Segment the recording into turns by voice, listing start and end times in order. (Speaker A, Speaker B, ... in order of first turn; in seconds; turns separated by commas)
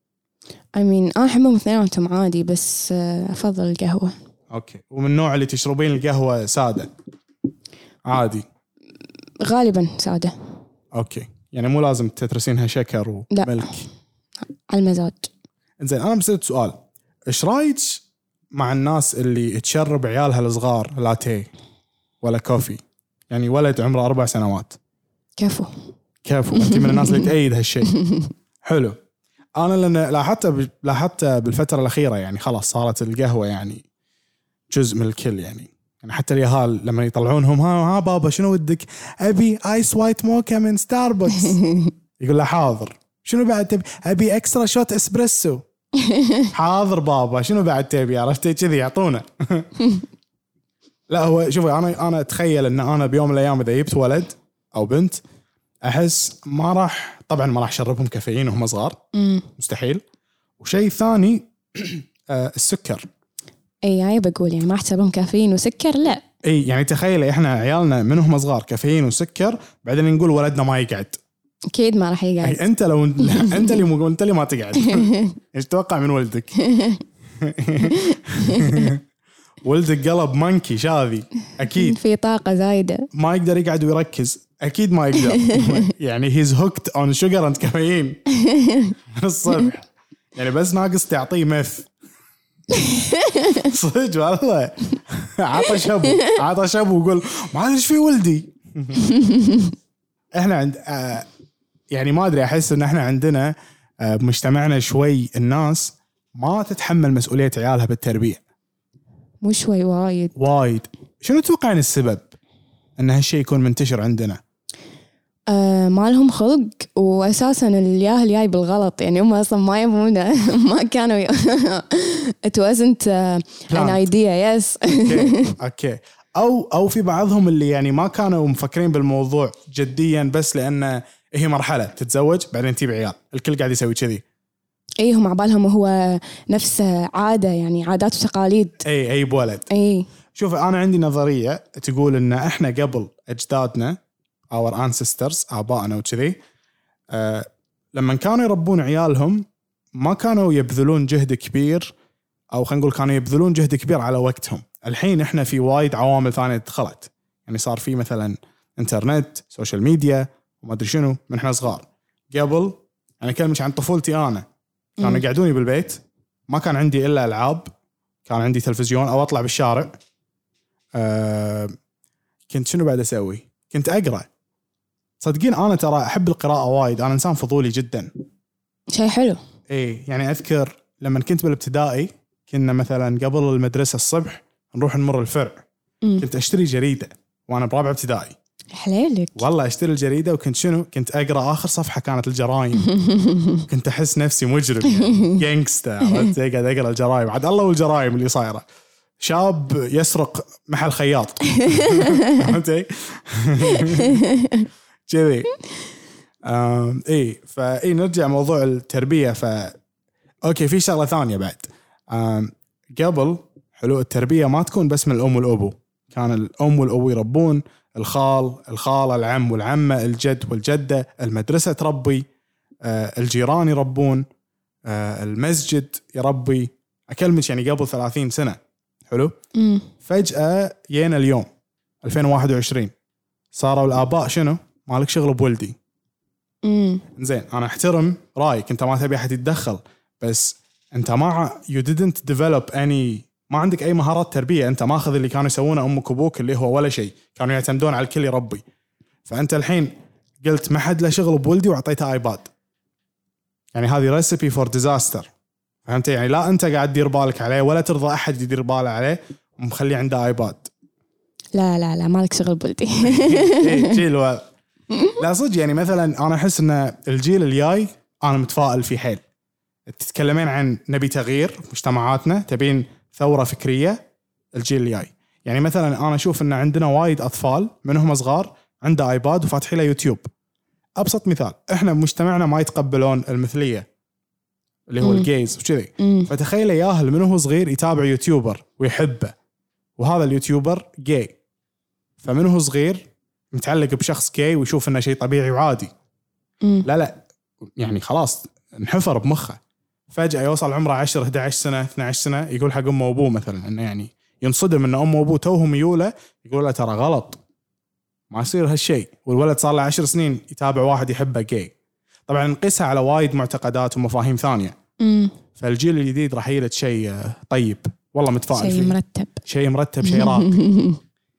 Speaker A: 0.8-4.1, Speaker B: 4.5-6.9, Speaker B: 8.1-8.4, Speaker A: 9.4-10.3, Speaker B: 10.9-13.8, Speaker A: 13.3-13.7, Speaker A: 14.7-15.3, Speaker B: 15.8-21.5, Speaker B: 22.2-24.8, Speaker A: 25.4-25.7, Speaker B: 26.2-27.9, Speaker A: 26.6-27.3, Speaker A: 27.9-28.3, Speaker B: 28.6-29.0, Speaker B: 29.6-33.8, Speaker B: 34.7-41.6, Speaker A: 41.5-41.9, Speaker B: 42.2-45.6, Speaker A: 46.0-46.5, Speaker B: 46.5-49.7, Speaker B: 51.1-55.2, Speaker B: 55.8-59.0, Speaker A: 59.1-59.5, Speaker B: 59.6-60.0, Speaker B: 60.6-63.1, Speaker A: 63.8-66.2, Speaker B: 66.4-71.2, Speaker A: 71.7-72.6, Speaker B: 72.4-76.5, Speaker A: 73.2-73.8, Speaker A: 74.8-75.4, Speaker A: 76.6-77.0, Speaker B: 77.4-79.0, Speaker A: 77.8-78.9, Speaker B: 79.6-82.0, Speaker A: 81.7-83.1, Speaker B: 83.1-88.2, Speaker A: 85.2-85.8, Speaker A: 88.3-89.0, Speaker B: 89.1-91.9, Speaker A: 92.7-93.7, Speaker B: 93.5-99.1, Speaker A: 96.0-96.3, Speaker A: 99.0-99.7, Speaker B: 100.3-101.3, Speaker B: 101.9-108.4, Speaker A: 109.4-110.4, Speaker B: 110.4-112.3, Speaker B: 113.0-114.4, Speaker A: 115.5-125.5, Speaker B: 123.7-124.1, Speaker B: 124.9-134.2, Speaker A: 135.0-138.8, Speaker B: 138.8-139.7, Speaker A: 139.7-140.1, Speaker B: 140.3-144.0, Speaker B: 144.5-146.4, Speaker B: 147.1-151.9, Speaker B: 152.5-164.5, Speaker B: 165.0-167.7, Speaker B: 168.3-170.0, Speaker B: 170.9-171.8, Speaker B: 172.5-174.3, Speaker B: 175.2-178.1, Speaker A: 178.9-179.4, Speaker B: 179.7-185.6, Speaker B: 186.2-188.3, Speaker A: 188.7-189.4, Speaker B: 189.4-192.9, Speaker A: 192.9-193.7, Speaker B: 193.7-198.6, Speaker A: 194.9-195.4, Speaker B: 199.2-204.2, Speaker A: 201.6-202.5, Speaker A: 203.7-204.7, Speaker B: 205.1-205.5, Speaker B: 206.4-209.8, Speaker B: 210.4-222.3, Speaker B: 222.8-224.2, Speaker B: 224.9-229.4, Speaker A: 229.6-229.9, Speaker B: 230.1-231.5, Speaker B: 232.0-232.9, Speaker B: 233.5-235.8, Speaker A: 236.6-237.0, Speaker B: 237.2-248.6, Speaker B: 249.3-252.5, Speaker B: 253.7-255.3, Speaker B: 255.9-260.7, Speaker A: 261.6-264.0, Speaker B: 263.0-264.5, Speaker A: 264.9-265.2, Speaker B: 265.2-269.2, Speaker B: 269.9-274.0, Speaker B: 274.5-280.3, Speaker B: 281.0-283.9, Speaker B: 284.9-289.3, Speaker A: 285.0-285.3, Speaker A: 286.0-286.3, Speaker B: 290.0-291.4, Speaker B: 292.2-295.9, Speaker B: 296.9-297.2, Speaker B: 297.8-299.6, Speaker B: 300.1-307.4, Speaker B: 308.3-311.7, Speaker B: 312.3-314.8, Speaker A: 315.0-315.4, Speaker B: 315.6-320.6, Speaker A: 318.5-319.4, Speaker A: 320.0-321.0